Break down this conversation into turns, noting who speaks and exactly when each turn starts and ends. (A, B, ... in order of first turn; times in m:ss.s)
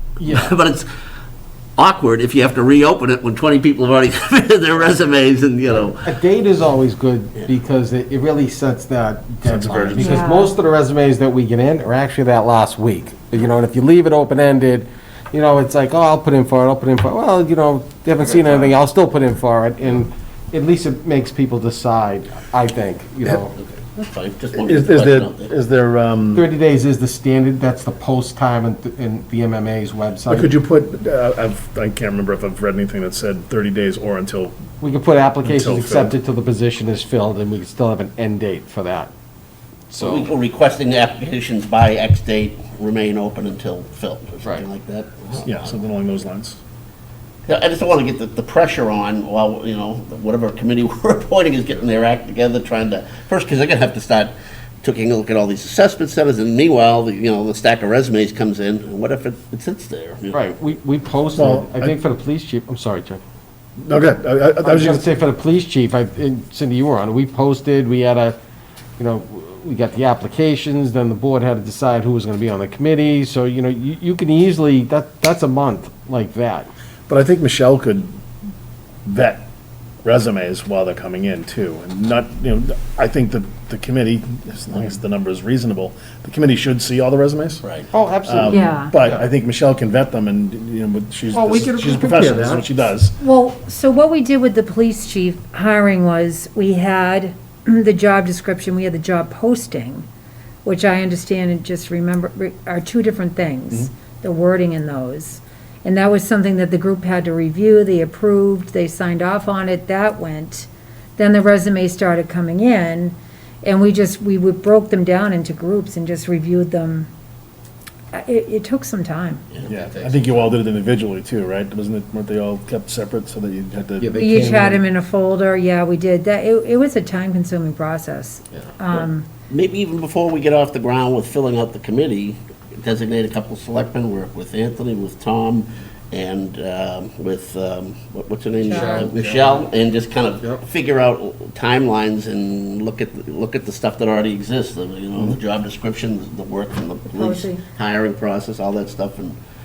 0:00.2-0:00.6 A
0:00.2-0:00.9 B
0:01.8-0:06.0 B
0:06.0-0:23.5 A
0:09.4-0:10.2 C
0:10.0-0:10.6 D
0:23.6-0:25.5 B
0:24.5-0:26.5 C
0:26.3-0:30.5 A
0:30.3-0:34.6 C
0:34.8-0:39.1 A
0:35.4-0:36.2 C
0:39.9-0:40.3 A
0:40.0-0:45.7 B
0:45.4-0:46.6 C
0:47.5-1:00.4 B
1:00.3-1:03.2 A
1:01.4-1:02.0 C
1:03.8-1:05.2 C
1:04.6-1:08.4 A
1:09.0-1:16.7 A
1:17.1-1:18.1 C
1:19.0-1:19.5 C
1:20.0-1:27.6 C
1:27.6-1:27.9 B
1:27.9-1:29.2 A
1:28.2-1:33.2 C
1:28.5-1:28.9 D
1:31.3-1:32.7 A
1:33.2-1:40.1 D
1:40.6-1:57.1 D
1:58.1-1:59.4 D
1:59.5-2:00.4 B
1:59.6-2:04.2 C
2:04.0-2:04.8 A
2:04.2-2:09.3 D
2:09.5-2:29.4 B
2:18.6-2:19.2 D
2:18.7-2:19.7 A
2:27.1-2:27.6 D